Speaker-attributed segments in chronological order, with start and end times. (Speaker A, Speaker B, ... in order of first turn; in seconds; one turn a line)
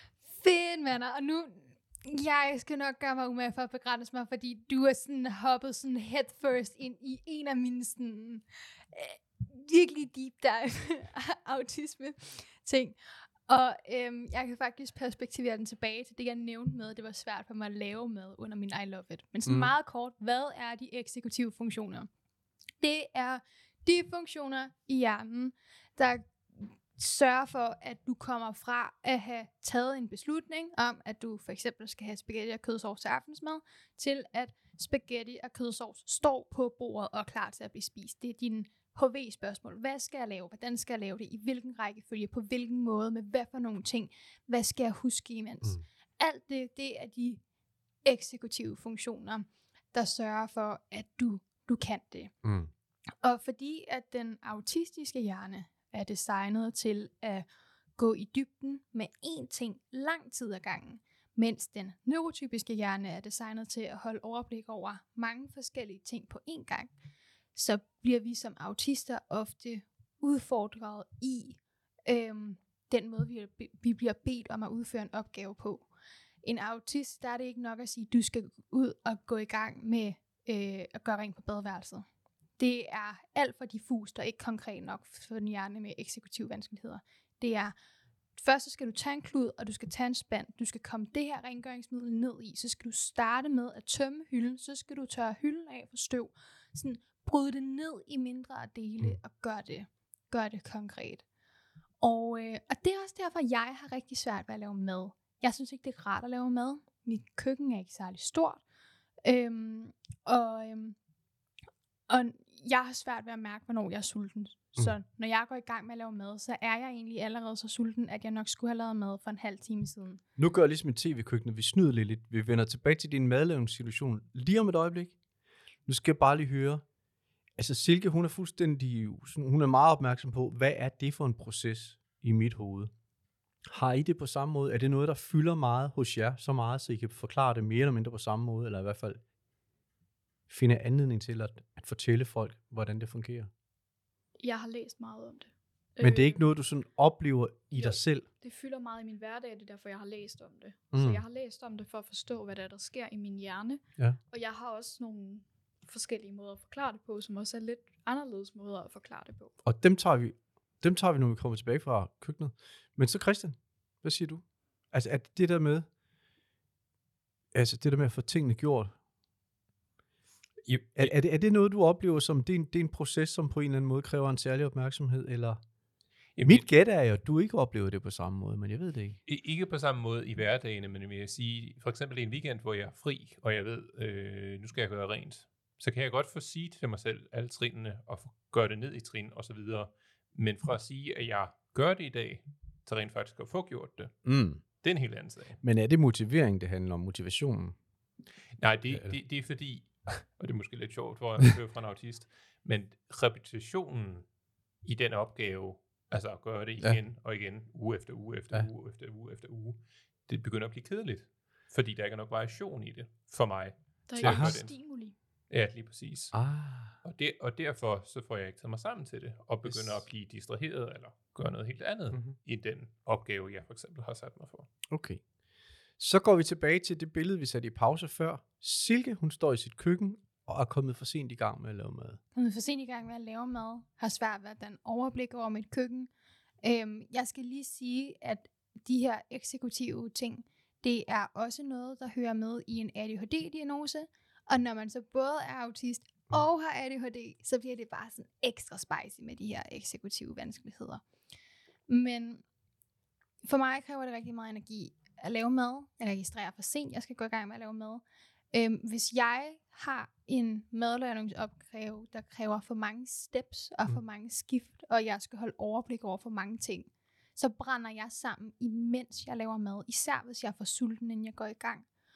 Speaker A: 0.3-22.1
Speaker B: 19.4-19.7
Speaker A: 22.8-47.4
Speaker A: 48.0-52.3
Speaker B: 52.4-52.7
Speaker A: 53.2-66.9
Speaker A: 67.5-75.9
Speaker A: 76.4-82.0
Speaker A: 82.6-87.7
Speaker A: 88.4-101.2
Speaker A: 102.0-108.6
Speaker A: 109.2-111.0
Speaker A: 112.1-120.2
Speaker B: 120.4-125.1
Speaker B: 125.8-126.8
Speaker B: 127.6-132.9
Speaker B: 133.7-139.2
Speaker B: 140.5-143.5
Speaker C: 144.4-146.4
Speaker B: 146.0-148.3
Speaker C: 147.7-159.6
Speaker B: 150.9-151.2
Speaker B: 159.6-165.9
Speaker B: 167.5-168.9
Speaker D: 170.7-171.1
Speaker B: 170.9-175.6
Speaker D: 176.3-176.6
Speaker B: 176.4-179.2
Speaker D: 179.3-195.6
Speaker B: 194.2-194.6
Speaker B: 195.6-197.8
Speaker D: 198.6-204.3
Speaker B: 198.9-199.2
Speaker D: 204.8-215.0
Speaker C: 214.1-215.1
Speaker B: 214.2-214.5
Speaker D: 215.5-216.4
Speaker B: 216.3-217.0
Speaker D: 217.0-224.7
Speaker B: 219.6-220.0
Speaker B: 224.9-225.2
Speaker B: 226.0-232.2
Speaker A: 232.3-236.1
Speaker A: 236.6-251.0
Speaker A: 251.9-252.4
Speaker A: 253.4-271.8